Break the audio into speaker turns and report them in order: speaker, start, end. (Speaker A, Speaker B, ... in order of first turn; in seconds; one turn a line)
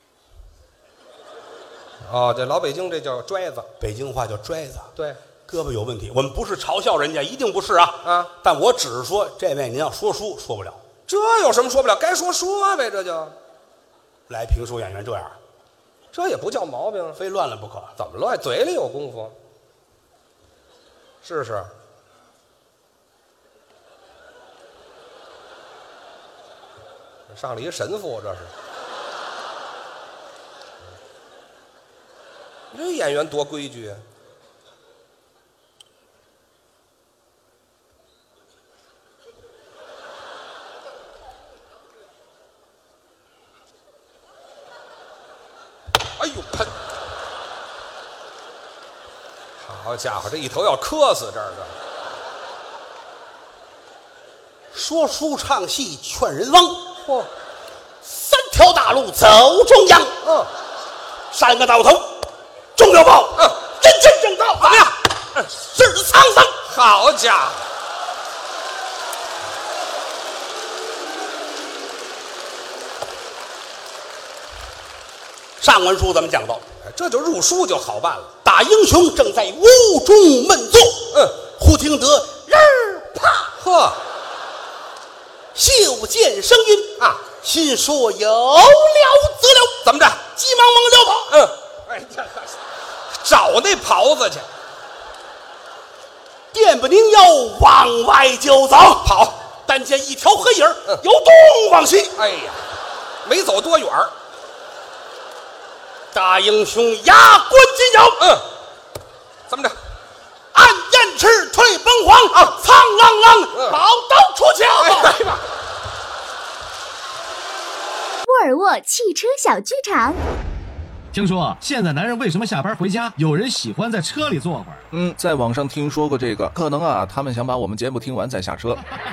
Speaker A: 2.0-3.7
Speaker B: 3.8-4.9
Speaker B: 5.5-10.8
Speaker A: 8.0-8.3
Speaker A: 11.1-13.3
Speaker B: 14.3-15.4
Speaker A: 16.1-17.2
Speaker B: 17.2-17.9
Speaker A: 18.0-19.4
Speaker A: 21.2-21.7
Speaker A: 27.3-28.5
Speaker A: 32.7-34.0
Speaker A: 46.2-46.7
Speaker A: 49.6-51.7
Speaker B: 54.7-56.9
Speaker A: 57.0-57.3
Speaker B: 58.0-60.2
Speaker A: 60.2-60.5
Speaker B: 61.3-66.6
Speaker A: 63.4-63.6
Speaker A: 64.6-65.0
Speaker A: 66.6-67.6
Speaker B: 75.6-76.6
Speaker A: 76.8-78.3
Speaker B: 78.4-83.5
Speaker A: 81.1-81.4
Speaker A: 83.5-84.0
Speaker B: 85.5-91.4
Speaker A: 87.0-87.2
Speaker A: 89.8-90.2
Speaker A: 91.3-92.6
Speaker A: 93.1-94.5
Speaker B: 96.5-102.2
Speaker A: 99.0-99.4
Speaker A: 102.1-102.6
Speaker A: 103.2-104.1
Speaker B: 106.1-108.4
Speaker A: 108.2-108.5
Speaker A: 109.5-109.8
Speaker B: 110.5-115.2
Speaker A: 113.5-113.8
Speaker A: 114.8-115.5
Speaker C: 118.2-120.2
Speaker D: 121.1-124.8
Speaker E: 124.9-128.8